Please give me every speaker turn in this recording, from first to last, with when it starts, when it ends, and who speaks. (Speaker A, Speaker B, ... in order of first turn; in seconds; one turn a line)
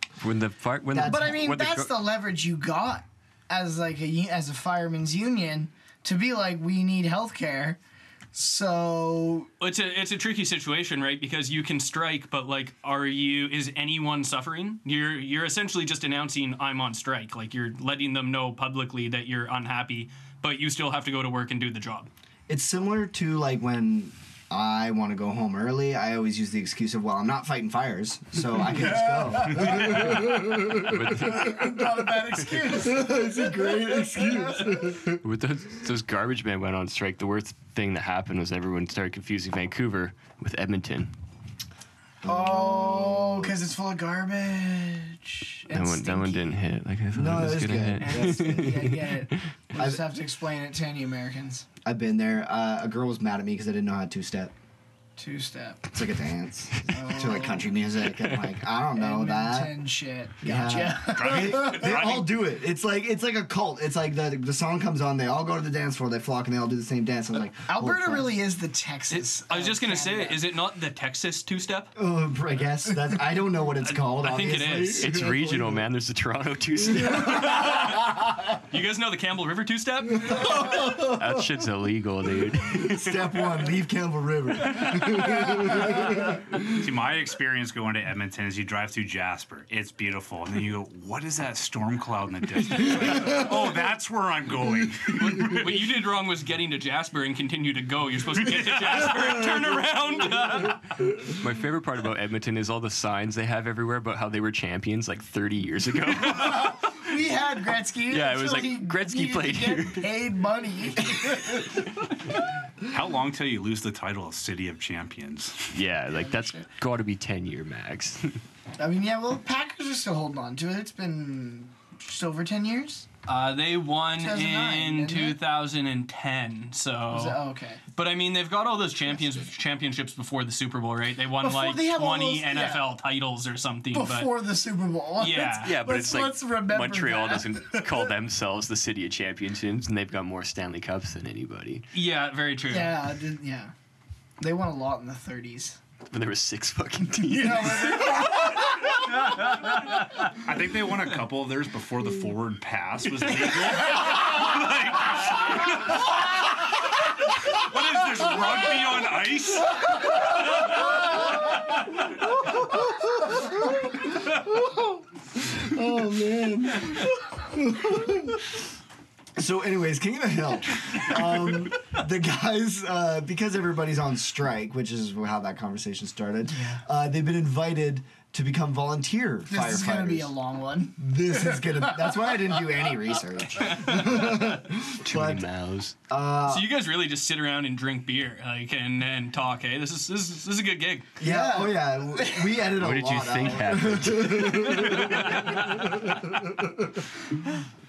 Speaker A: 0.2-1.9
Speaker B: 0.9-1.4
Speaker C: 1.1-7.8
Speaker C: 8.3-9.5
Speaker D: 9.6-22.1
Speaker B: 22.5-30.1
Speaker C: 28.6-29.9
Speaker A: 29.9-31.7
Speaker C: 31.2-33.5
Speaker B: 32.8-35.0
Speaker C: 34.2-34.7
Speaker A: 35.2-41.1
Speaker B: 42.2-43.5
Speaker C: 42.2-46.6
Speaker A: 45.7-49.1
Speaker B: 47.1-48.9
Speaker C: 48.0-51.7
Speaker B: 51.9-54.5
Speaker C: 55.2-55.8
Speaker B: 55.9-59.7
Speaker C: 56.9-57.7
Speaker C: 59.0-61.9
Speaker B: 60.4-68.3
Speaker E: 61.1-62.3
Speaker C: 67.7-70.4
Speaker D: 69.1-71.9
Speaker B: 72.0-75.6
Speaker D: 73.8-75.1
Speaker A: 75.0-77.8
Speaker D: 78.7-80.5
Speaker B: 80.3-81.2
Speaker A: 81.0-83.2
Speaker B: 82.8-86.1
Speaker E: 86.7-95.6
Speaker D: 95.2-100.8
Speaker A: 101.4-106.8
Speaker C: 106.3-111.8
Speaker A: 108.1-110.0
Speaker E: 112.9-115.8
Speaker A: 115.7-118.4
Speaker C: 116.1-116.7
Speaker C: 118.8-123.1
Speaker D: 123.3-127.4
Speaker C: 124.2-125.4
Speaker C: 127.1-127.8
Speaker D: 128.0-134.3
Speaker C: 131.4-132.8
Speaker C: 133.9-138.1
Speaker D: 135.2-135.7
Speaker A: 135.6-141.9
Speaker D: 141.9-143.0
Speaker C: 142.7-143.7
Speaker C: 144.4-145.8
Speaker A: 146.1-148.4
Speaker C: 147.3-148.7
Speaker E: 150.4-156.1
Speaker E: 157.4-159.9
Speaker B: 162.7-168.6
Speaker B: 169.4-180.3
Speaker C: 176.5-176.8
Speaker C: 179.5-181.7
Speaker B: 181.0-185.5
Speaker D: 183.7-184.5
Speaker A: 185.0-186.0
Speaker B: 186.1-186.7
Speaker D: 186.4-191.1
Speaker B: 191.2-195.6
Speaker C: 191.2-192.5
Speaker A: 192.8-195.6